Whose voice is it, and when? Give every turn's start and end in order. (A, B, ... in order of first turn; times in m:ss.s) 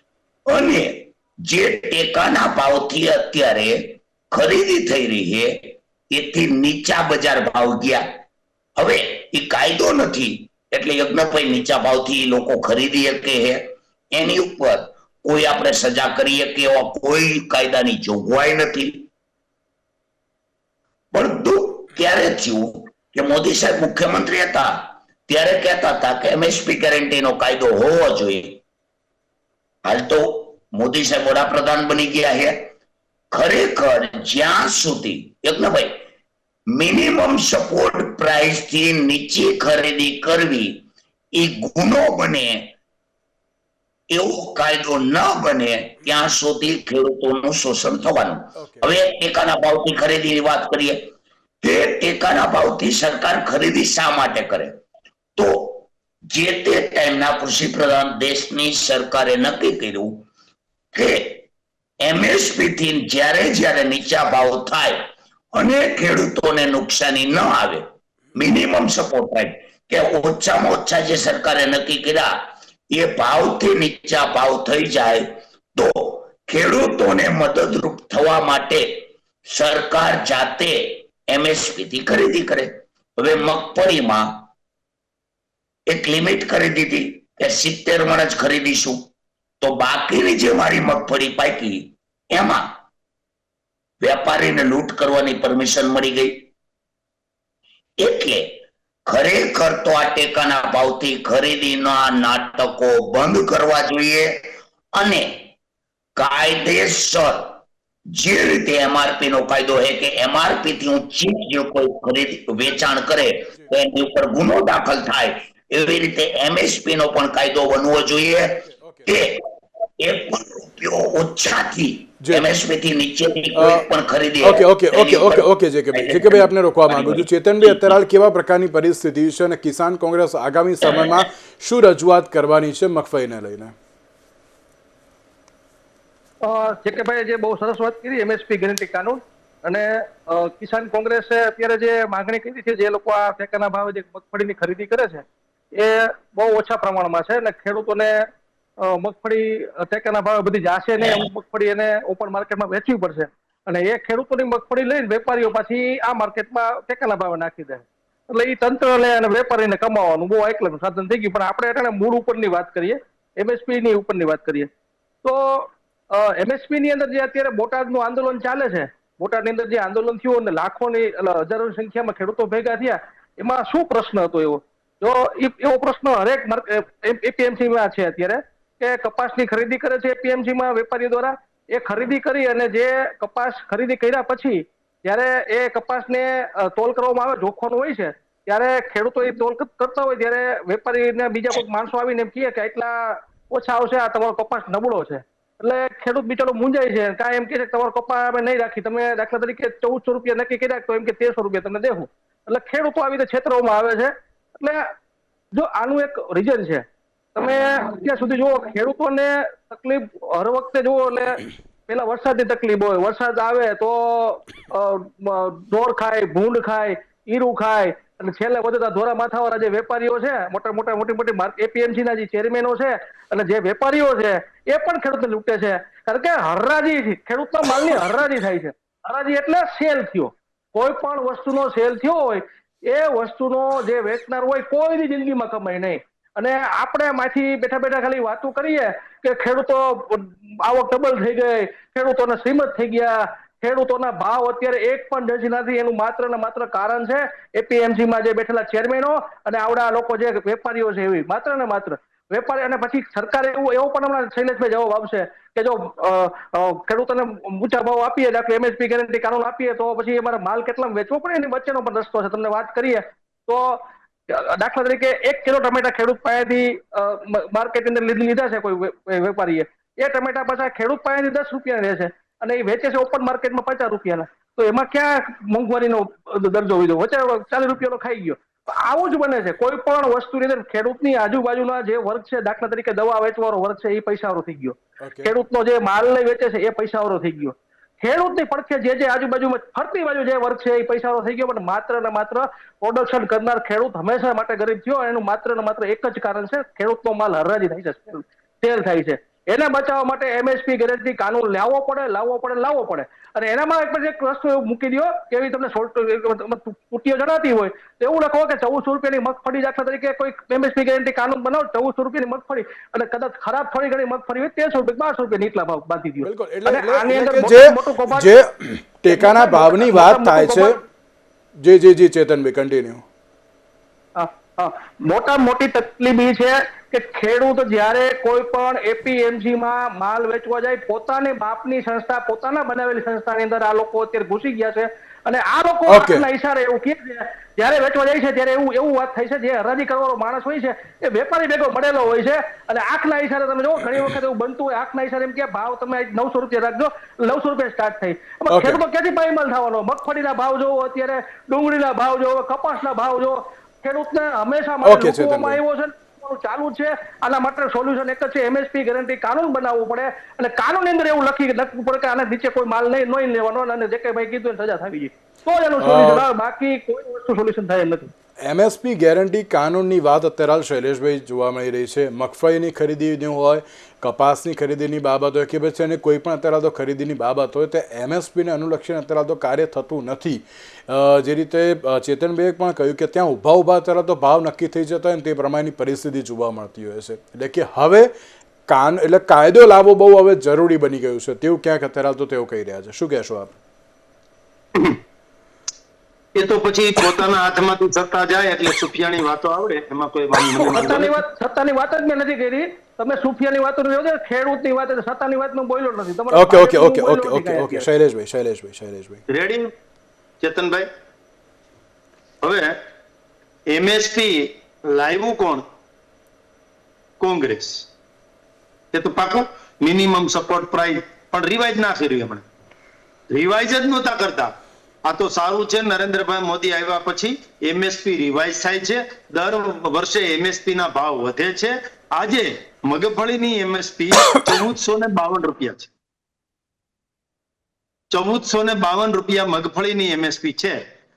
0:00.5-0:08.1 A
0:08.8-0:19.1 A
0:21.1-0:28.6 A
0:29.8-0:32.7 A
0:33.3-0:36.0 A
0:36.7-0:42.7 A
0:44.1-0:51.0 A
0:48.6-0:48.9 B
0:51.6-0:54.8 A
0:55.4-1:00.2 A
1:00.9-1:01.4 A
1:02.0-1:12.3 A
1:12.9-1:24.4 A
1:25.9-1:29.1 A
1:29.6-1:32.7 A
1:34.0-1:36.4 A
1:38.0-1:45.5 A
1:46.2-1:47.6 A
1:48.1-1:59.4 A
1:58.7-1:59.1 B
2:00.0-2:08.0 A
2:03.6-2:03.8 B
2:04.4-2:13.7 B
2:10.8-2:11.2 A
2:16.4-2:28.3 C
2:28.8-2:44.7 C
2:45.2-3:24.9 C
3:25.5-5:18.3 C
4:45.0-4:45.3 B
5:16.2-5:20.8 B
5:19.1-5:20.8 C
5:21.6-5:23.0 B
5:24.2-6:08.1 C
5:35.9-5:36.2 B
5:48.5-5:48.8 B
5:54.8-5:55.6 B
6:05.8-6:06.2 B
6:08.4-6:28.1 B
6:28.7-6:33.6 B
6:36.3-6:41.2 D
6:40.6-6:47.9 C
6:46.3-6:49.2 B
6:49.3-6:49.7 D
6:50.4-6:50.9 D
6:52.4-6:52.8 D
6:53.7-6:55.6 D
6:57.2-6:57.8 D
6:58.9-7:02.4 D
7:03.3-7:04.5 D
7:05.0-7:15.9 D
7:18.1-7:20.8 D